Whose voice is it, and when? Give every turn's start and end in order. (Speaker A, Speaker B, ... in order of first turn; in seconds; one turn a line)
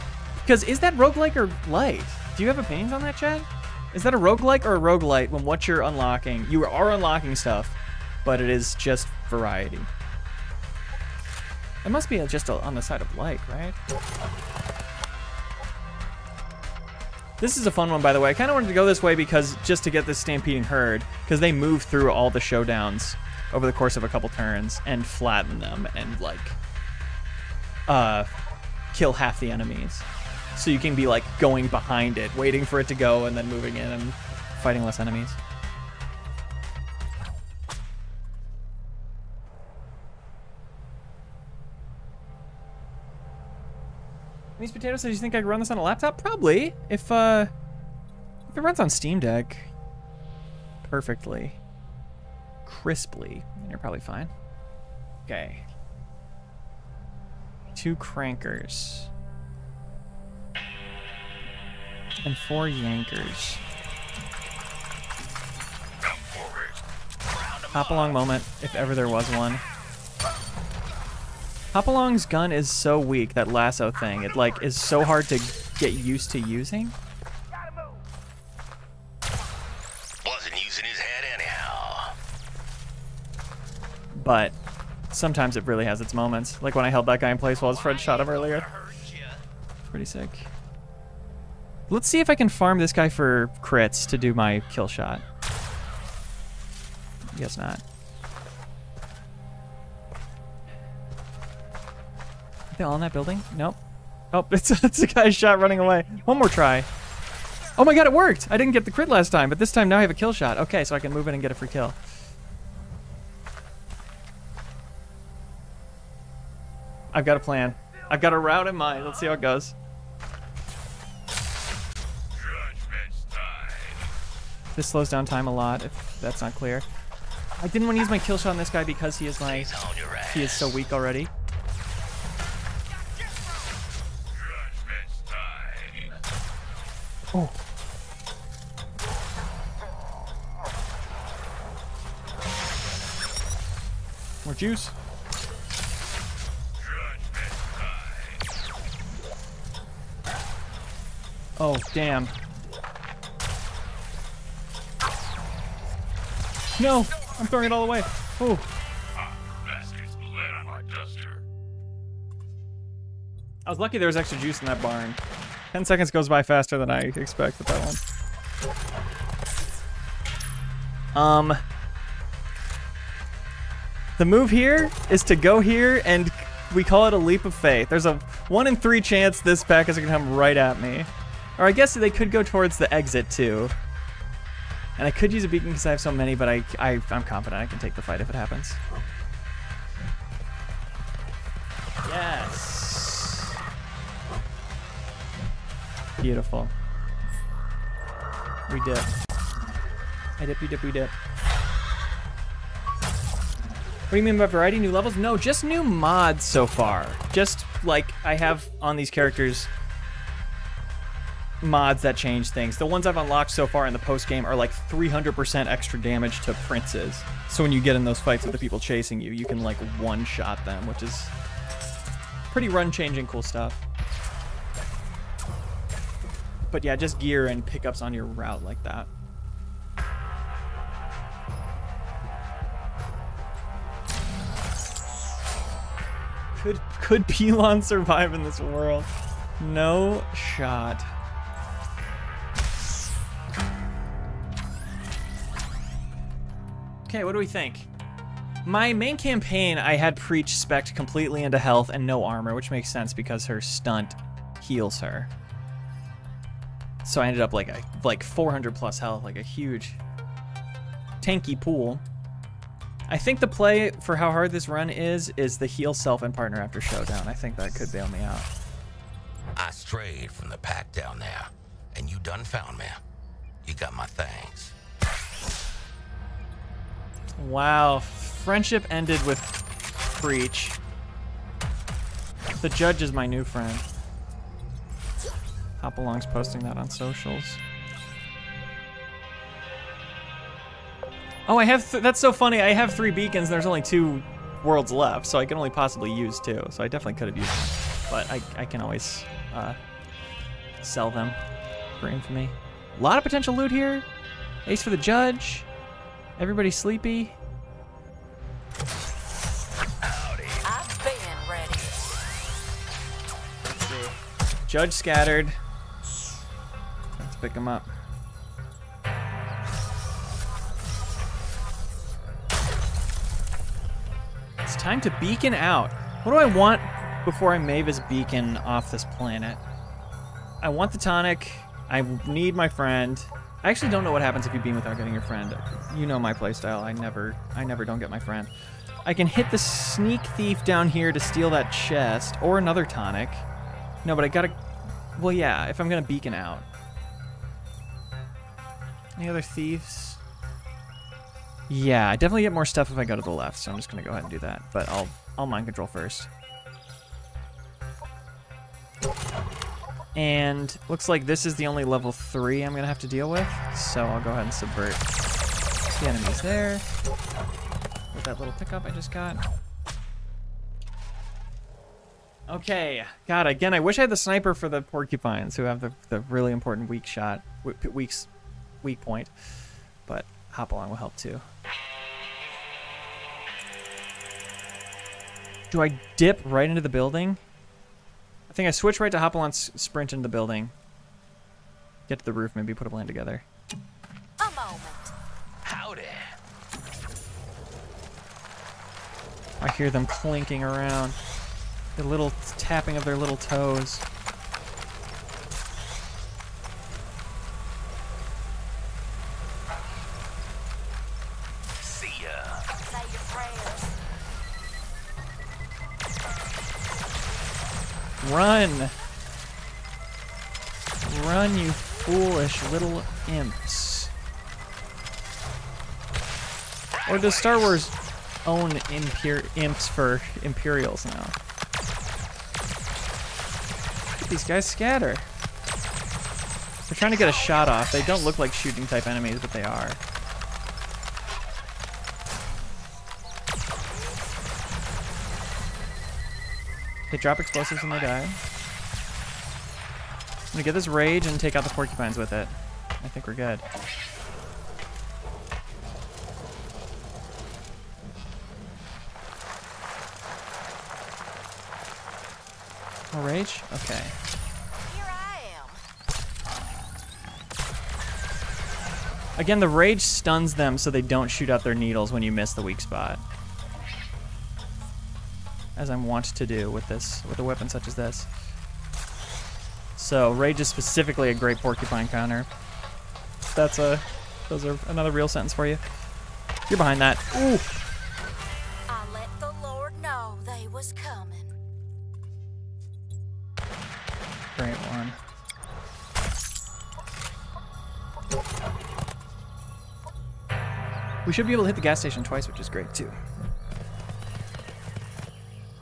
Speaker A: 0.4-9.9
Speaker A: 11.8-13.8
Speaker A: 17.4-26.6
Speaker A: 27.9-28.3
Speaker A: 28.9-35.4
Speaker A: 44.6-47.5
Speaker A: 48.5-49.7
Speaker A: 50.8-51.6
Speaker A: 52.6-54.3
Speaker A: 55.3-55.6
Speaker A: 57.8-59.1
Speaker A: 62.2-63.6
Speaker B: 66.0-68.2
Speaker A: 67.7-69.7
Speaker A: 71.7-77.0
Speaker B: 80.2-82.2
Speaker A: 84.2-84.6
Speaker A: 85.1-88.7
Speaker A: 89.9-90.5
Speaker A: 91.9-95.2
Speaker A: 97.3-97.8
Speaker A: 102.7-103.8
Speaker A: 104.3-106.9
Speaker A: 107.8-112.0
Speaker A: 117.1-119.8
Speaker B: 122.8-123.8
Speaker A: 124.8-126.9
Speaker A: 127.6-131.3
Speaker B: 129.4-130.8
Speaker B: 134.3-136.2
Speaker A: 144.4-144.9
Speaker B: 146.8-148.4
Speaker A: 151.6-152.3
Speaker A: 156.8-158.7
Speaker B: 157.2-157.7
Speaker B: 159.2-161.4
Speaker A: 163.7-165.2
Speaker A: 165.7-168.0
Speaker A: 171.1-171.6
Speaker A: 174.2-183.8
Speaker A: 185.0-188.8
Speaker A: 192.1-193.6
Speaker A: 196.2-196.7
Speaker A: 198.7-199.1
Speaker A: 200.4-201.1
Speaker A: 204.1-209.7
Speaker A: 211.6-221.3
Speaker A: 222.5-223.8
Speaker A: 226.7-229.1
Speaker A: 236.6-241.1
Speaker A: 247.1-247.9
Speaker A: 248.7-255.3
Speaker A: 257.1-260.0
Speaker A: 261.2-262.0
Speaker A: 263.1-268.5
Speaker B: 269.6-273.0
Speaker B: 273.6-274.7
Speaker A: 277.4-279.6
Speaker A: 280.2-280.8
Speaker A: 282.6-283.9
Speaker A: 285.8-287.6
Speaker A: 291.5-299.8
Speaker A: 300.8-301.4
Speaker A: 302.0-304.1
Speaker A: 304.7-305.7
Speaker A: 306.4-307.4
Speaker B: 310.0-310.6
Speaker C: 310.6-312.0
Speaker A: 313.7-314.2
Speaker A: 314.7-315.6
Speaker A: 317.2-317.9
Speaker A: 324.6-329.6
Speaker A: 330.6-338.5
Speaker A: 339.1-343.4
Speaker A: 344.0-344.6
Speaker A: 345.2-346.7
Speaker A: 349.2-350.2
Speaker A: 351.7-356.3
Speaker A: 360.1-365.1
Speaker A: 366.0-366.9
Speaker A: 368.1-369.4
Speaker A: 372.5-378.3
Speaker A: 378.8-379.3
Speaker A: 380.1-381.4
Speaker A: 385.7-387.4
Speaker A: 388.5-390.7
Speaker A: 392.1-393.4
Speaker C: 394.4-395.1
Speaker B: 395.6-396.3
Speaker A: 399.6-401.2
Speaker A: 402.0-404.0
Speaker B: 411.8-412.7
Speaker C: 412.8-413.9
Speaker A: 418.2-418.9
Speaker A: 421.0-424.1
Speaker B: 427.0-427.8
Speaker A: 427.1-427.9
Speaker A: 428.4-431.4
Speaker A: 434.2-435.3
Speaker A: 436.9-440.0
Speaker C: 437.1-438.3
Speaker A: 447.1-448.4
Speaker A: 450.5-453.6
Speaker A: 463.1-464.2
Speaker C: 464.9-465.8
Speaker A: 469.4-473.2
Speaker A: 475.8-478.3
Speaker A: 480.0-482.5
Speaker A: 483.6-485.8
Speaker A: 486.7-487.7
Speaker C: 488.9-491.5
Speaker A: 494.5-495.2
Speaker A: 501.3-503.2